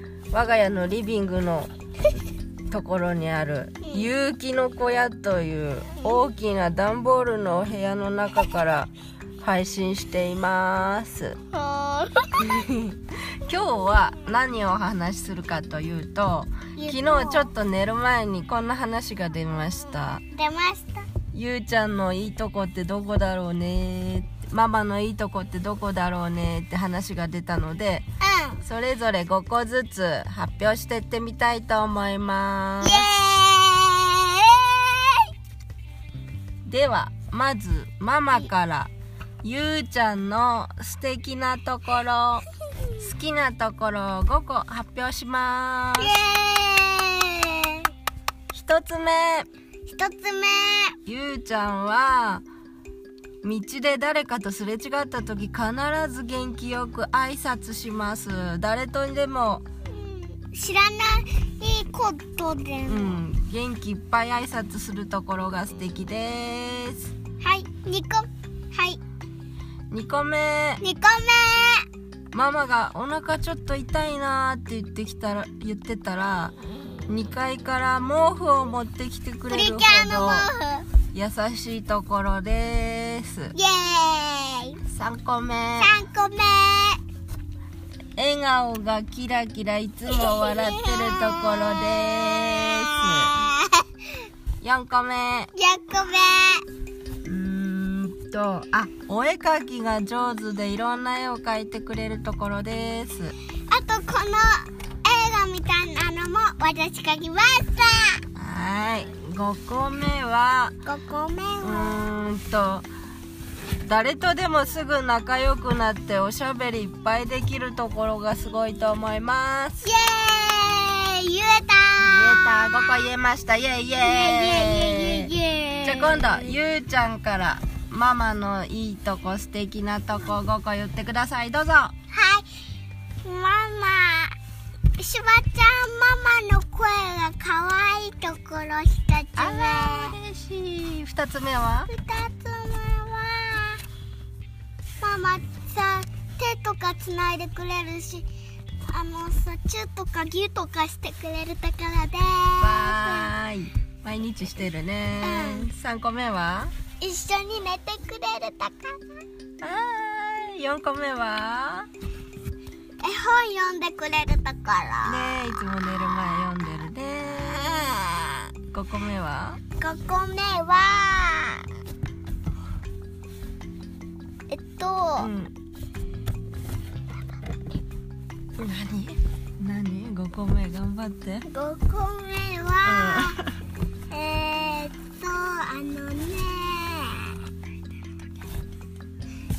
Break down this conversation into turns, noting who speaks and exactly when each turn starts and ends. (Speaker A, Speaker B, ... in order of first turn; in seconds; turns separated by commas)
Speaker A: 0.3-1.7, Speaker A: 2.7-8.9, Speaker A: 9.4-11.4, Speaker B: 11.5-12.5, Speaker A: 12.4-20.2, Speaker B: 16.8-17.5, Speaker B: 20.3-21.1, Speaker A: 21.3-28.1, Speaker B: 28.2-28.6, Speaker A: 28.6-33.1, Speaker B: 32.8-35.3, Speaker A: 36.7-38.9, Speaker A: 39.4-42.5, Speaker A: 43.0-46.2, Speaker B: 46.0-47.9, Speaker A: 48.5-49.5, Speaker B: 49.9-51.0, Speaker A: 51.1-52.5, Speaker A: 53.4-59.6, Speaker B: 59.9-63.2, Speaker A: 62.9-67.1, Speaker B: 67.4-69.0, Speaker A: 69.9-70.8, Speaker B: 70.8-71.9, Speaker A: 72.3-76.5, Speaker A: 77.1-80.5, Speaker B: 79.5-80.9, Speaker A: 81.1-83.5, Speaker B: 83.5-84.8, Speaker A: 84.9-86.0, Speaker B: 85.8-87.0, Speaker A: 88.2-93.5, Speaker B: 90.1-91.8, Speaker B: 92.5-93.8, Speaker A: 94.6-95.5, Speaker B: 95.5-96.6, Speaker A: 97.2-103.3, Speaker B: 103.7-108.2, Speaker A: 108.3-110.8, Speaker B: 110.8-112.0, Speaker A: 111.6-112.9, Speaker A: 113.8-119.9, Speaker B: 119.8-123.1, Speaker A: 122.0-131.9, Speaker B: 124.0-126.5, Speaker B: 132.1-132.5, Speaker B: 133.2-134.3, Speaker B: 135.0-140.2, Speaker A: 139.4-141.9, Speaker B: 141.9-143.8, Speaker B: 145.0-148.3, Speaker B: 148.8-153.3, Speaker A: 152.6-156.7, Speaker B: 155.2-155.7, Speaker B: 157.0-159.0, Speaker A: 159.6-161.9, Speaker B: 163.0-165.4, Speaker A: 165.1-168.0, Speaker B: 167.7-168.4, Speaker A: 168.7-169.6, Speaker B: 169.8-171.7, Speaker B: 174.5-175.3, Speaker A: 175.2-175.5, Speaker A: 178.6-181.4, Speaker B: 181.5-183.4, Speaker A: 182.8-183.6, Speaker B: 184.1-187.4